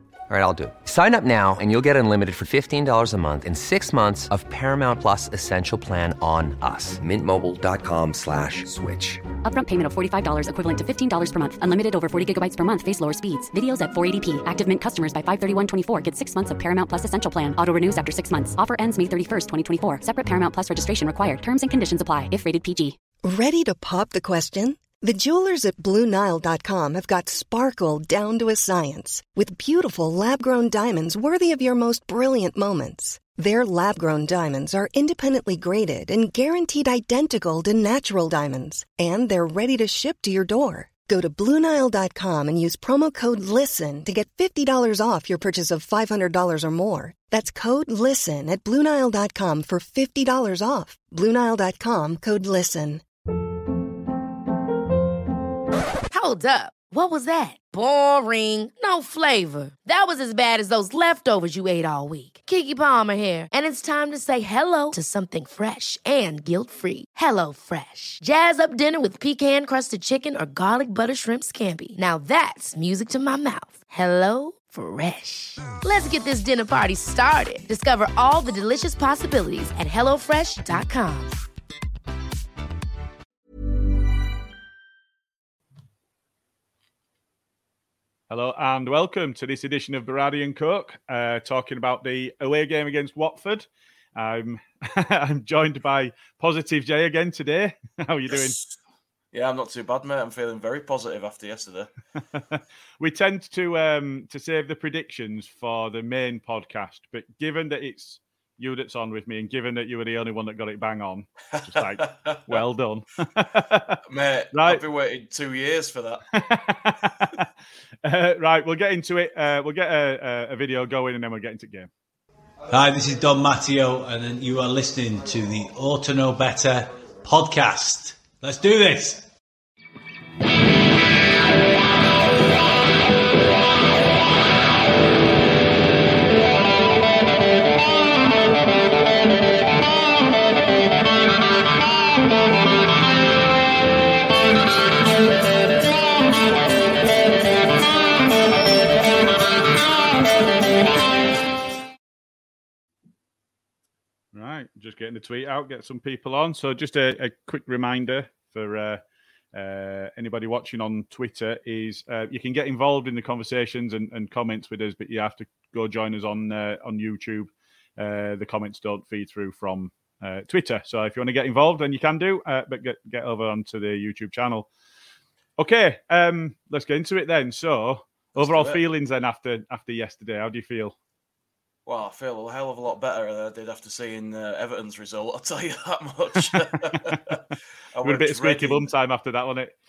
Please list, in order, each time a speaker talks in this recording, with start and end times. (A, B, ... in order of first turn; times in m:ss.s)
0:00.3-0:09.2 A
0:09.4-0:23.0 B
0:23.2-0:53.0 C
0:56.1-1:21.3 D
1:28.3-1:38.6 E
1:38.3-1:38.8 F
1:39.3-1:41.9 F
1:42.4-1:54.0 E
1:51.5-1:52.6 F
1:54.1-1:56.3 F
1:54.5-1:54.8 E
1:56.3-1:57.5 E
1:58.0-2:01.9 E
2:02.7-2:09.3 G
2:34.3-2:39.0 E
2:39.5-2:54.7 E
2:55.6-3:01.0 E
2:58.4-2:58.8 F
3:01.9-3:08.9 F
3:08.0-3:09.7 E